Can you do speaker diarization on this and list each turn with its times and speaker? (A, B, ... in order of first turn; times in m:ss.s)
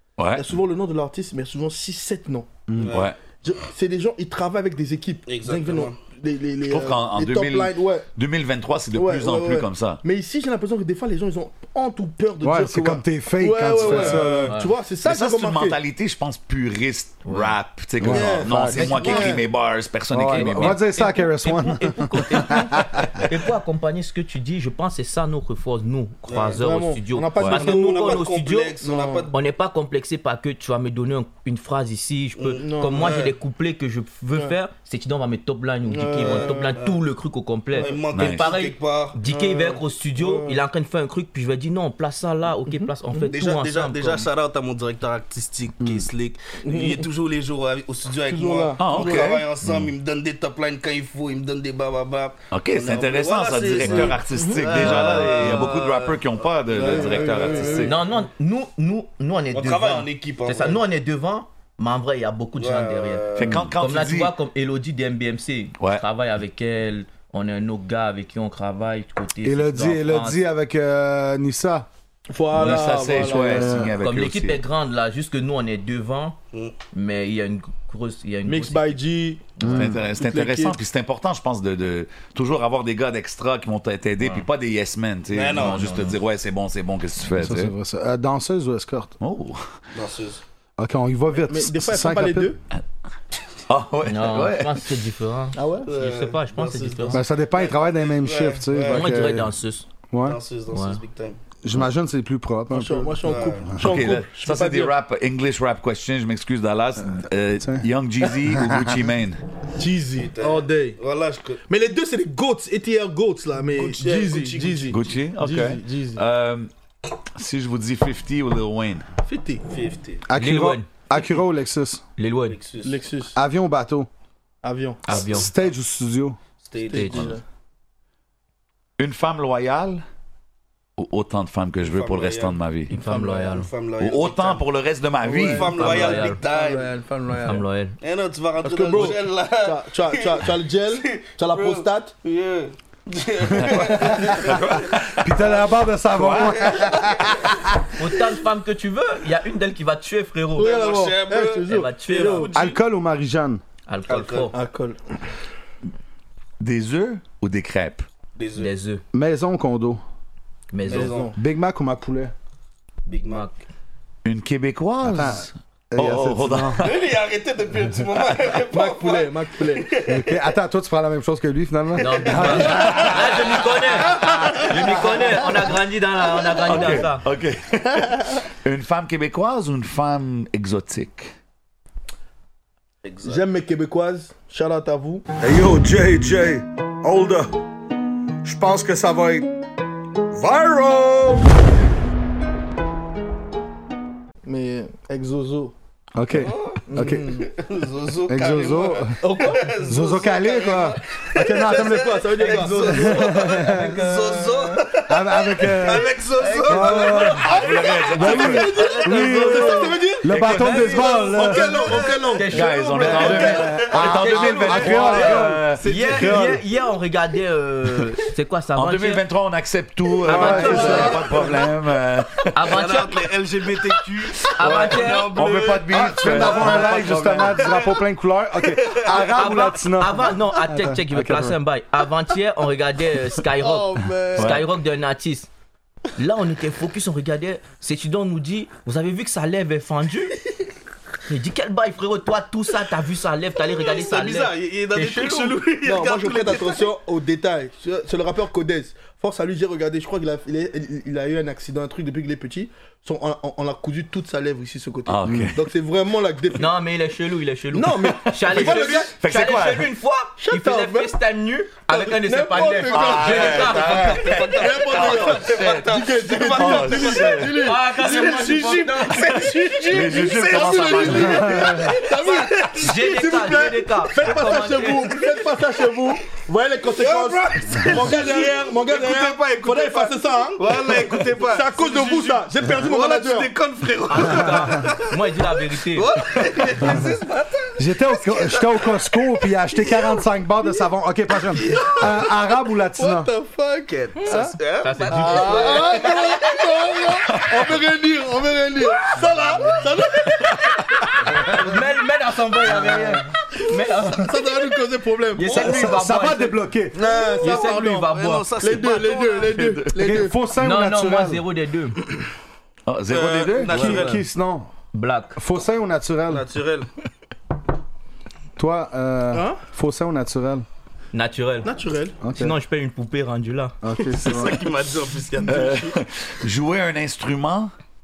0:00.2-0:00.5 A
0:00.3-0:02.5 B
0:02.7-0:03.0 C
0:02.8-0:03.1 D
0:03.4-0:08.1 B
0:05.3-0:06.0 D
0:06.7-0:10.0 A
0:08.9-0:15.8 B
0:12.4-0:14.6 C
0:13.9-0:14.7 E
0:15.0-0:20.9 A
0:17.2-0:17.6 E
0:18.0-0:19.0 C
0:18.1-0:19.4 B
0:19.0-0:19.4 E
0:20.1-0:23.2 C
0:20.3-0:28.8 E
0:26.3-0:26.6 D
0:26.5-0:28.2 B
0:27.4-0:27.6 A
0:27.5-0:29.4 D
0:28.8-0:29.3 B
0:29.3-0:44.3 E
0:32.4-0:33.3 D
0:32.6-0:33.1 B
0:35.9-0:36.8 B
0:36.2-0:37.0 D
0:37.7-0:39.2 D
0:38.1-0:38.5 A
0:39.3-0:40.6 B
0:42.7-0:43.3 B
0:43.2-0:58.0 D
0:45.8-0:46.1 C
0:46.6-0:47.1 B
0:48.3-0:49.4 B
0:48.8-0:49.8 A
0:52.5-0:58.0 A
0:53.8-0:55.0 B
0:53.9-0:54.1 E
0:54.8-0:55.7 E
0:56.7-0:58.0 B
0:57.8-1:03.2 E
0:59.5-1:00.8 D
1:02.6-1:03.6 D
1:03.4-1:04.3 A
1:03.4-1:03.7 C
1:03.8-1:10.4 E
1:09.4-1:11.9 C
1:12.3-1:13.9 B
1:12.5-1:14.6 A
1:13.2-1:14.0 C
1:14.0-1:16.4 E
1:16.9-1:19.0 E
1:18.4-1:20.8 B
1:19.6-1:20.0 C
1:19.6-1:27.7 A
1:25.3-1:26.0 D
1:25.5-1:26.2 E
1:27.3-1:29.2 C
1:29.2-1:29.7 A
1:29.9-1:30.4 D
1:30.8-1:32.5 C
1:31.3-1:32.6 B
1:33.7-1:34.8 A
1:34.1-1:37.2 E
1:35.5-1:35.9 B
1:35.8-1:39.2 D
1:37.1-1:39.5 C
1:38.9-1:39.9 E
1:40.1-1:40.4 C
1:40.2-1:41.4 D
1:40.7-1:41.0 E
1:41.6-1:44.0 C
1:42.7-1:44.9 B
1:43.2-1:43.7 D
1:43.8-1:49.4 A
1:48.4-1:48.9 C
1:49.8-1:51.0 B
1:50.2-1:51.6 D
1:51.7-1:56.2 B
1:53.7-1:55.0 D
1:54.9-1:56.7 A
1:57.4-1:59.1 A
1:59.2-1:59.7 B
1:59.6-2:00.2 D
2:00.3-2:02.0 C
2:00.4-2:00.9 E
2:02.2-2:02.6 E
2:02.5-2:03.0 D
2:02.8-2:03.4 B
2:03.4-2:04.1 C
2:04.6-2:05.3 B
2:05.0-2:05.5 E
2:05.1-2:06.4 C
2:06.6-2:07.4 D
2:06.8-2:07.4 B
2:06.9-2:07.3 E
2:09.0-2:10.0 A
2:11.0-2:12.9 A
2:11.8-2:12.6 D
2:12.9-2:13.7 E
2:12.9-2:13.4 B
2:13.1-2:14.7 D
2:14.0-2:15.9 A
2:15.2-2:17.6 B
2:15.4-2:17.0 D
2:15.7-2:16.4 E
2:17.4-2:18.0 E
2:18.0-2:24.8 D
2:18.6-2:22.1 B
2:23.6-2:25.2 A
2:23.6-2:24.6 C
2:25.2-2:27.8 C
2:26.2-2:26.7 A
2:26.6-2:27.2 D
2:28.0-2:30.7 E
2:30.6-2:32.6 B
2:30.6-2:32.8 D
2:31.7-2:32.5 E
2:32.5-2:33.6 C
2:33.9-2:34.5 E
2:34.1-2:34.6 D
2:34.5-2:35.0 B
2:36.6-2:38.1 A
2:38.4-2:38.7 D
2:38.6-2:39.0 E
2:39.1-2:40.0 C
2:40.7-2:41.2 E
2:40.9-2:41.4 D
2:40.9-2:41.4 B
2:41.4-2:42.3 C
2:43.1-2:43.6 E
2:43.1-2:43.5 D
2:44.2-2:47.1 A
2:45.0-2:46.8 C
2:46.8-2:50.4 D
2:48.7-2:50.0 B
2:50.1-2:53.4 C
2:52.0-2:57.2 E
2:52.0-2:54.7 D
2:56.6-3:01.3 A
3:03.0-3:03.4 D
3:03.2-3:05.2 B
3:05.4-3:07.6 C
3:08.4-3:09.5 C
3:10.3-3:11.5 C
3:14.4-3:15.7 B
3:16.2-3:17.4 C
3:16.3-3:32.3 D
3:16.9-3:17.5 B
3:18.3-3:19.2 C
3:19.2-3:19.7 B
3:19.9-3:24.0 C
3:21.6-3:24.8 B
3:22.4-3:24.8 E
3:25.1-3:27.5 C
3:26.4-3:27.7 E
3:27.3-3:33.6 B
3:27.4-3:28.8 A
3:28.1-3:31.7 C
3:29.1-3:29.8 E
3:30.3-3:30.9 A
3:30.3-3:39.2 E
3:32.5-3:35.8 A
3:33.0-3:35.2 D
3:33.2-3:36.6 C
3:35.8-3:36.4 D
3:38.8-3:42.9 A
3:40.2-3:41.3 C
3:40.3-3:41.2 E
3:40.4-3:41.6 B
3:40.6-3:41.4 D
3:42.6-3:43.2 E
3:42.6-3:48.0 D
3:44.5-3:47.6 A
3:44.5-3:45.4 E
3:45.9-3:51.6 C
3:46.5-3:47.4 E
3:48.6-3:49.4 D
3:49.4-3:55.5 E
3:53.6-3:54.5 D
3:53.9-3:54.4 B
3:54.4-3:54.7 A
3:56.2-4:00.4 E
4:01.3-4:05.6 E
4:03.8-4:06.8 D
4:05.8-4:16.8 B
4:15.1-4:15.7 A
4:16.6-4:24.3 E
4:17.7-4:19.1 B
4:18.4-4:19.9 A
4:20.4-4:21.2 B
4:21.9-4:28.0 B
4:22.9-4:24.4 A
4:23.0-4:33.8 D
4:25.1-4:25.4 A
4:26.5-4:27.6 A
4:27.6-4:29.7 E
4:29.9-4:31.8 A
4:29.9-4:40.8 B
4:31.4-4:31.9 C
4:32.2-4:35.2 E
4:35.2-4:35.9 D
4:36.8-4:50.2 D
4:41.5-4:43.5 B
4:44.1-4:46.1 E
4:46.8-4:47.1 C
4:47.8-4:53.3 C
4:51.4-4:52.4 D
4:53.0-4:57.2 D
4:54.3-4:54.5 B
4:54.3-4:56.2 E
4:55.1-5:00.8 B
4:59.1-4:59.8 D
5:01.5-5:04.4 E
5:04.2-5:05.8 B
5:05.4-5:06.6 E
5:05.4-5:06.0 D
5:05.5-5:07.0 C
5:06.9-5:09.9 D
5:07.0-5:10.4 B
5:07.4-5:08.9 E
5:10.0-5:11.4 C
5:10.5-5:12.0 E
5:12.9-5:13.9 A
5:13.1-5:14.3 D
5:13.7-5:14.2 E
5:13.7-5:14.7 C
5:14.9-5:15.4 E
5:15.4-5:16.5 C
5:16.3-5:16.9 D
5:18.6-5:20.7 C
5:19.3-5:19.6 B
5:21.1-5:21.7 E
5:21.6-5:22.2 B
5:22.2-5:22.6 C
5:22.3-5:23.8 E
5:23.8-5:24.7 C
5:24.0-5:25.9 D
5:25.4-5:25.9 B
5:25.5-5:27.7 A